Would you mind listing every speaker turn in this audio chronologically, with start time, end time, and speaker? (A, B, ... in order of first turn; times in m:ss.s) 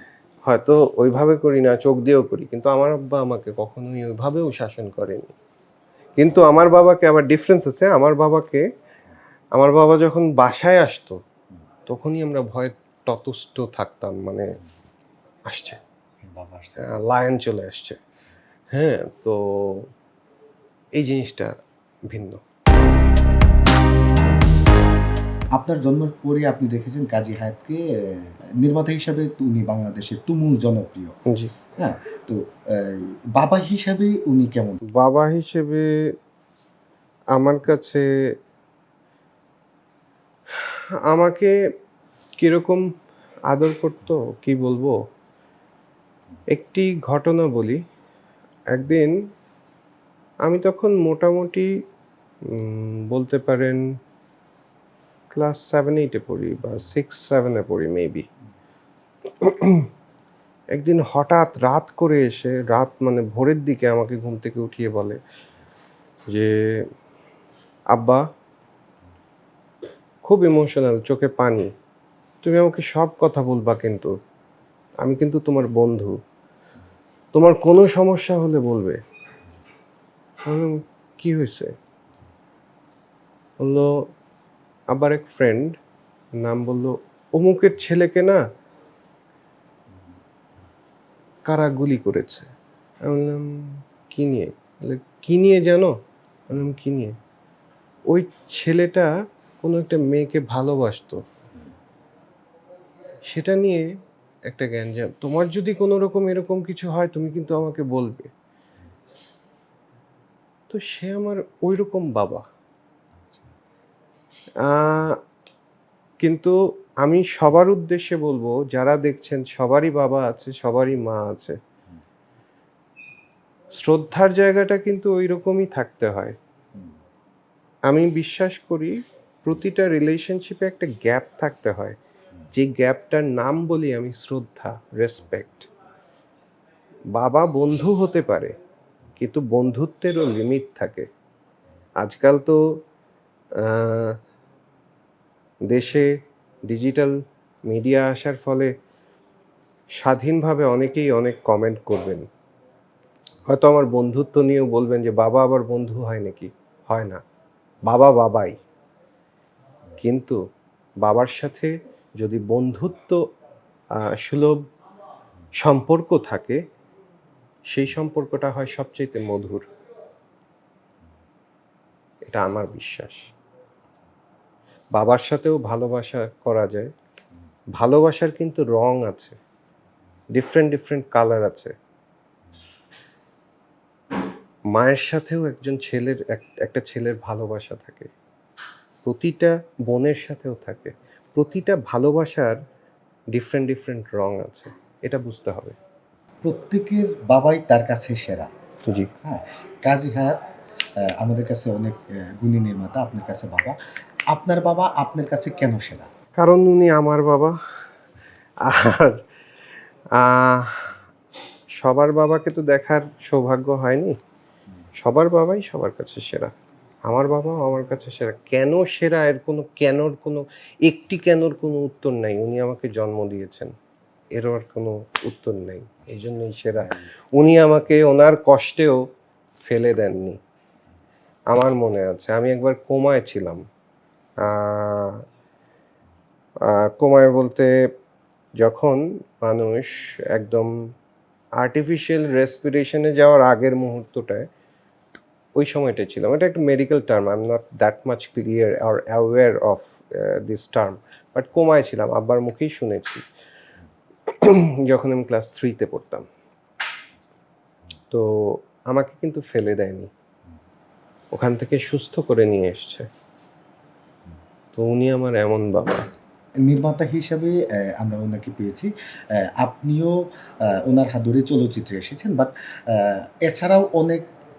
0:00.4-0:05.3 A
0:06.2-0:08.6 A
0:09.5-0:11.2 A
0:11.9-0:14.5 A
0:15.5-0:15.8 A
0:16.2-0:17.0 B
0:16.8-0:18.0 A
0:18.7-0:19.9 A
0:21.0-0:22.4 A
0:25.5-0:31.2 B
0:31.3-0:31.5 A
0:31.8-0:34.8 B
0:34.9-0:35.9 A
0:37.3-0:38.0 A
0:40.5-0:41.5 A
0:42.4-0:42.8 A
0:43.5-0:45.0 A
0:46.5-0:47.8 A
0:48.7-0:49.1 A
0:50.4-0:51.7 A
0:52.5-0:53.8 A
0:55.3-0:58.3 A
0:59.4-0:59.9 A
1:00.7-1:05.2 A
1:06.3-1:06.8 A
1:07.9-1:08.2 A
1:10.2-1:11.7 A
1:12.4-1:14.1 A
1:15.0-1:16.2 A
1:17.3-1:19.0 A
1:20.4-1:21.7 A
1:23.6-1:23.9 A
1:24.9-1:25.8 A
1:26.4-1:28.4 A
1:31.4-1:32.5 A
1:33.0-1:35.9 A
1:36.5-1:37.2 A
1:38.1-1:39.1 A
1:39.6-1:41.2 A
1:43.3-1:43.8 A
1:44.5-1:48.3 A
1:50.7-1:52.4 A
1:53.2-1:53.5 B
1:54.6-1:55.2 A
1:56.2-2:01.6 A
2:03.8-2:06.4 A
2:07.9-2:12.0 A
2:12.5-2:15.7 A
2:17.1-2:18.5 A
2:19.2-2:21.1 A
2:22.0-2:22.6 A
2:23.6-2:24.2 A
2:25.7-2:26.1 A
2:26.7-2:27.2 A
2:27.7-2:28.7 A
2:30.0-2:32.2 A
2:33.4-2:37.2 A
2:37.8-2:38.6 A
2:40.0-2:40.4 A
2:41.0-2:43.2 A
2:44.0-2:44.7 A
2:45.6-2:46.6 A
2:47.7-2:49.6 A
2:52.3-2:53.3 A
2:55.0-2:56.9 A
2:57.8-2:59.4 A
3:00.3-3:01.7 A
3:04.7-3:08.1 A
3:09.0-3:12.6 A
3:13.3-3:15.8 A
3:16.4-3:18.5 B
3:19.2-3:20.4 B
3:21.0-3:23.8 B
3:24.3-3:26.1 B
3:26.4-3:27.6 A
3:28.6-3:29.2 A
3:30.1-3:31.0 A
3:31.8-3:34.2 A
3:35.0-3:36.5 A
3:37.0-3:43.7 A
3:44.3-3:49.0 A
3:46.8-3:47.1 B
3:49.6-3:50.4 A
3:51.5-3:53.6 A
3:54.4-3:55.2 A
3:56.6-3:57.7 A
3:58.6-4:00.7 A
4:01.6-4:04.5 A
4:05.6-4:13.2 A
4:14.2-4:16.2 A
4:18.1-4:20.1 A
4:21.3-4:23.1 A
4:24.7-4:26.1 A
4:26.6-4:34.2 B